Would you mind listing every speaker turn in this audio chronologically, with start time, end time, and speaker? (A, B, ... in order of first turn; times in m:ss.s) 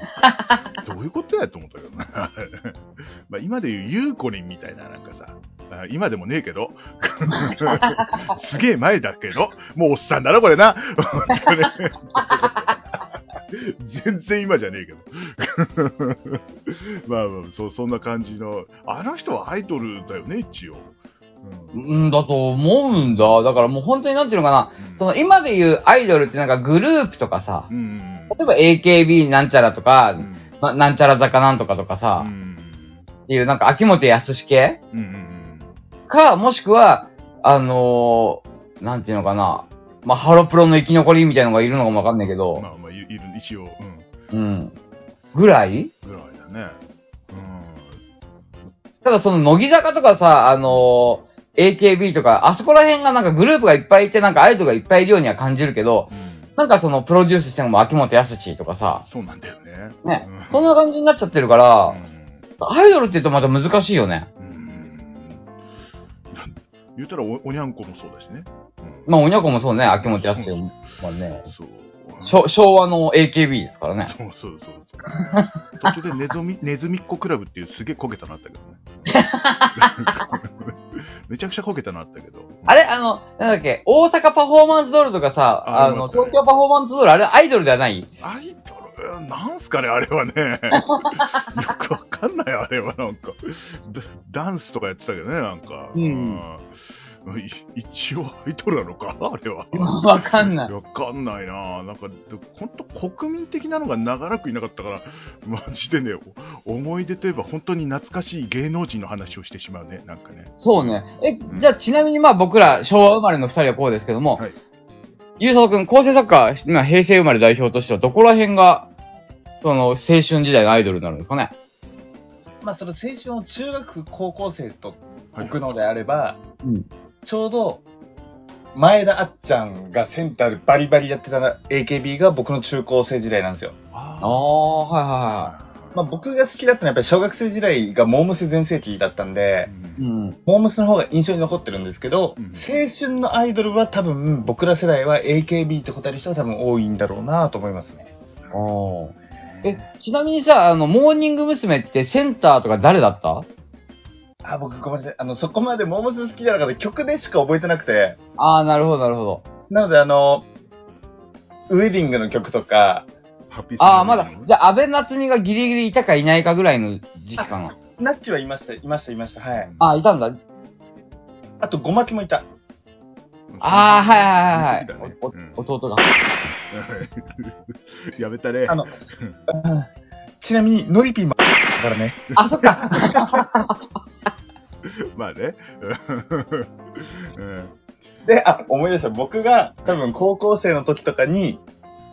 0:00.2-0:00.6 A
0:00.8-0:02.8 B
0:03.3-0:20.9 B
0:07.3-0:08.2 A
0:21.4-0:22.0 B
0:21.7-0:27.7 A
0:23.1-0:23.4 B
0:24.8-0:25.1 B
0:27.7-0:28.4 B
0:28.3-0:32.3 A
0:30.2-0:30.6 B
0:32.2-0:33.0 B
0:33.3-0:34.8 A
0:34.9-0:35.7 B
0:36.1-0:42.6 A
0:42.6-0:44.1 B
0:44.3-0:44.7 A
0:45.3-0:45.9 A
0:46.0-0:46.8 B
0:47.3-0:48.0 B
0:49.0-0:59.0 A
0:56.1-0:56.5 B
0:59.1-1:00.8 B
1:00.0-1:02.0 A
1:01.9-1:02.4 B
1:02.6-1:04.3 A
1:04.4-1:05.5 B
1:06.3-1:09.1 B
1:09.1-1:11.4 A
1:10.0-1:10.9 B
1:11.4-1:12.4 B
1:12.2-1:14.1 A
1:14.0-1:18.9 B
1:19.1-1:20.3 A
1:19.8-1:22.9 B
1:22.7-1:28.1 A
1:25.6-1:26.4 B
1:28.2-1:36.7 B
1:30.8-1:31.5 A
1:36.0-1:36.4 A
1:37.2-1:51.7 B
1:39.7-1:40.7 A
1:50.6-1:54.4 A
1:55.4-1:58.9 A
1:59.6-2:01.5 A
2:02.6-2:06.4 C
2:07.2-2:07.8 C
2:08.7-2:13.8 C
2:13.9-2:14.5 B
2:14.2-2:15.5 A
2:15.4-2:16.0 B
2:15.9-2:19.7 C
2:19.7-2:20.0 B
2:20.0-2:20.4 A
2:20.5-2:28.1 C
2:22.4-2:22.8 B
2:28.5-2:29.1 A
2:29.3-2:29.9 B
2:29.6-2:33.5 A
2:34.4-2:38.2 C
2:38.4-2:39.4 A
2:39.7-2:40.5 C
2:41.7-2:43.1 C
2:43.5-2:44.5 B
2:43.8-2:47.7 A
2:47.4-2:49.7 C
2:49.6-2:49.9 B
2:49.8-2:50.4 A
2:51.6-2:52.5 C
2:53.5-2:55.6 B
2:53.6-2:56.1 A
2:56.7-2:59.4 B
2:59.5-2:59.9 C
3:00.4-3:02.2 C
3:02.3-3:03.4 B
3:02.4-3:03.8 A
3:04.8-3:07.7 B
3:08.2-3:11.6 C